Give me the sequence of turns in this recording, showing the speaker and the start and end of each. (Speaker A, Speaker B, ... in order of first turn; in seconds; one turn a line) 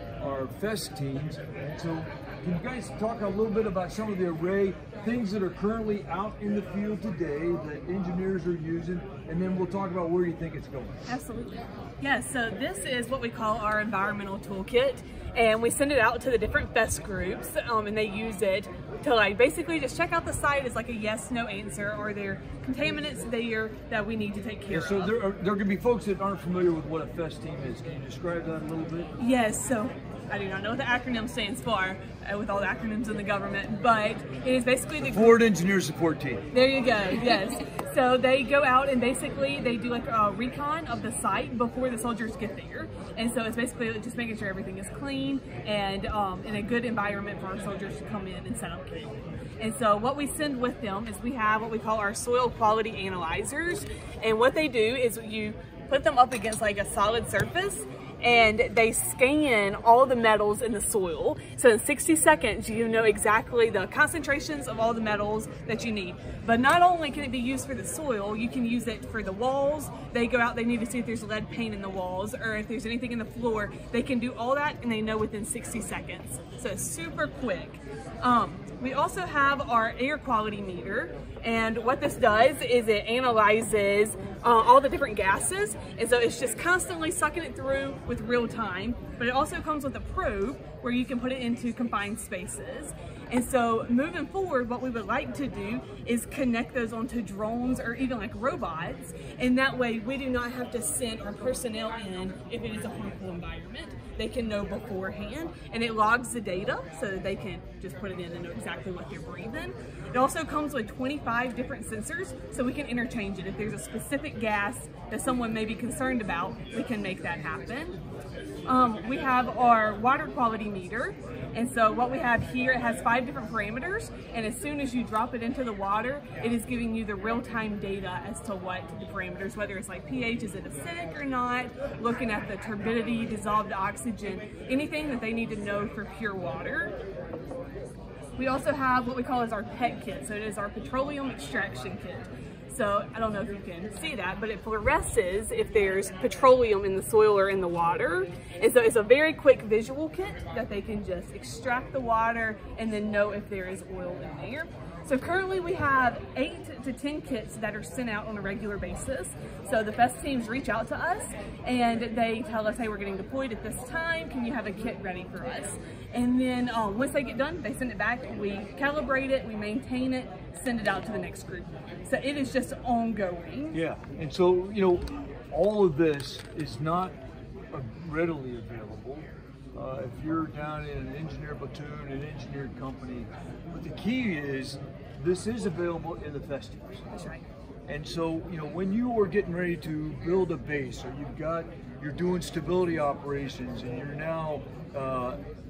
Speaker A: 0.2-11.0
Speaker B: 11.1-25.1
Speaker A: 24.7-29.1
Speaker B: 29.2-35.4
Speaker A: 35.0-36.4
Speaker B: 36.5-118.0
Speaker B: 118.7-137.0
Speaker B: 138.4-173.8
Speaker A: 173.7-177.2
Speaker A: 177.7-187.1
Speaker B: 187.1-187.4
Speaker A: 187.9-195.4